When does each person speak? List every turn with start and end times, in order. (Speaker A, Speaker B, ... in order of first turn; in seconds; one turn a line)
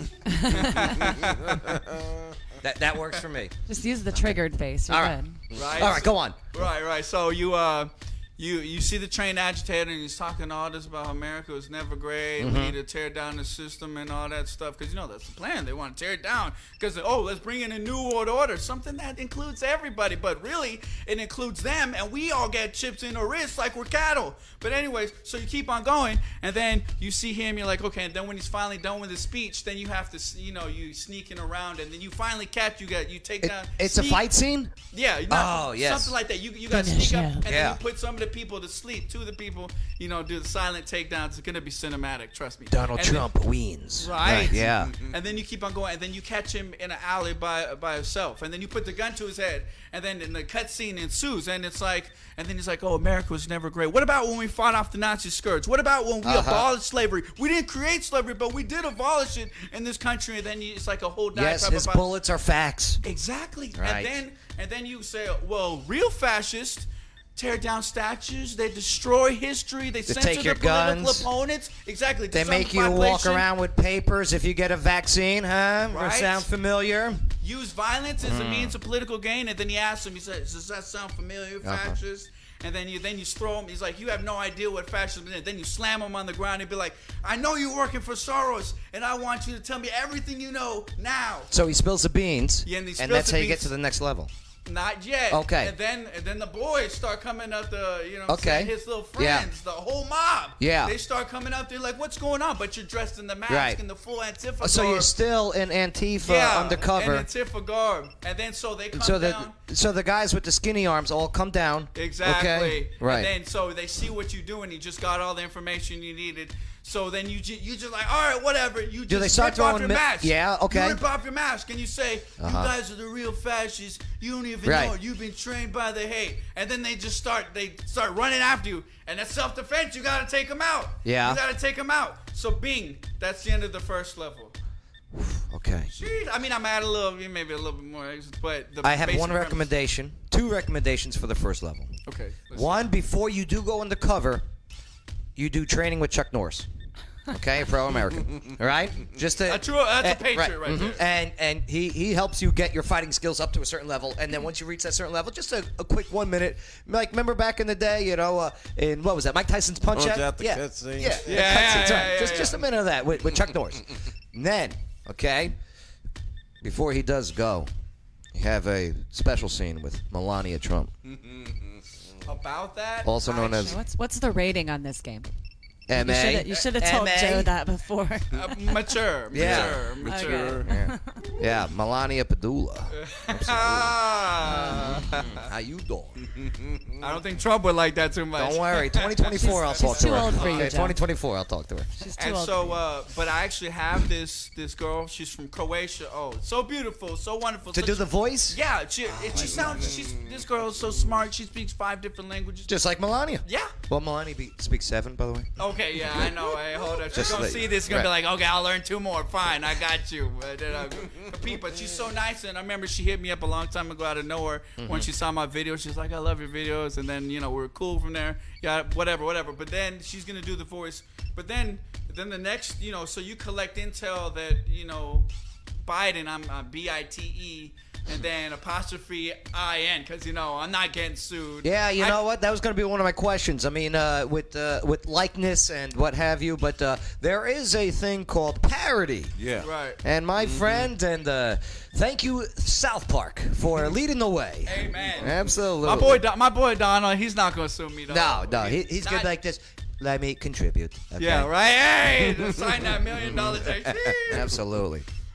Speaker A: 0.2-1.1
Speaker B: 0.5-1.7
Speaker C: 1.7-2.0
Speaker D: 2.6-3.5
Speaker A: 3.7-5.4
Speaker D: 4.9-6.4
Speaker B: 5.5-34.2
Speaker D: 12.4-12.8
Speaker D: 33.4-34.7
Speaker B: 34.9-43.3
Speaker D: 35.3-36.2
Speaker A: 36.7-37.4
Speaker D: 37.4-37.8
Speaker D: 42.7-45.0
Speaker B: 44.0-62.0
Speaker C: 44.6-45.1
Speaker D: 56.2-56.7
Speaker D: 61.3-63.0
Speaker B: 63.0-73.5
Speaker D: 63.8-64.1
Speaker D: 70.1-71.3
Speaker D: 72.3-77.3
Speaker B: 75.9-76.5
Speaker B: 77.4-91.5
Speaker D: 78.2-78.8
Speaker D: 81.6-82.0
Speaker D: 91.5-94.3
Speaker B: 92.7-93.7
Speaker B: 94.7-105.1
Speaker D: 95.3-95.8
Speaker D: 98.3-99.5
Speaker D: 100.6-101.0
Speaker D: 103.5-103.8
Speaker D: 104.6-107.3
Speaker B: 106.2-109.5
Speaker D: 108.9-113.3
Speaker B: 112.0-134.6
Speaker D: 119.1-121.0
Speaker D: 122.4-122.7
Speaker D: 124.6-125.0
Speaker D: 131.0-131.4
Speaker D: 135.2-135.9
Speaker B: 135.9-139.7
Speaker D: 138.8-141.9
Speaker B: 142.1-142.9
Speaker D: 142.5-144.5
Speaker D: 145.4-146.7
Speaker D: 147.3-165.6
Speaker B: 149.4-151.0
Speaker C: 159.9-161.3
Speaker B: 161.3-162.6
Speaker D: 166.6-167.7
Speaker D: 168.3-170.9
Speaker B: 172.2-173.8
Speaker D: 173.0-173.8
Speaker A: 173.6-175.3
Speaker D: 175.9-177.5
Speaker A: 175.9-178.9
Speaker B: 178.3-180.6
Speaker D: 179.3-179.9
Speaker C: 179.4-180.6
Speaker A: 180.0-181.2
Speaker D: 180.6-186.2
Speaker B: 182.9-185.4
Speaker A: 184.4-185.1
Speaker B: 187.0-190.7
Speaker D: 188.4-191.9
Speaker A: 189.4-191.0
Speaker A: 192.0-192.8
Speaker B: 192.2-202.7
Speaker D: 197.7-200.1
Speaker D: 202.7-206.5
Speaker B: 203.5-203.8
Speaker B: 205.6-225.3
Speaker D: 207.1-208.1
Speaker D: 214.8-215.1
Speaker B: 225.8-232.2
Speaker D: 231.6-239.3
Speaker C: 239.4-239.7
Speaker B: 239.6-240.0
Speaker D: 240.0-246.2
Speaker C: 240.4-240.9
Speaker B: 244.7-249.3
Speaker D: 248.1-251.5
Speaker B: 251.2-254.5
Speaker D: 253.1-255.1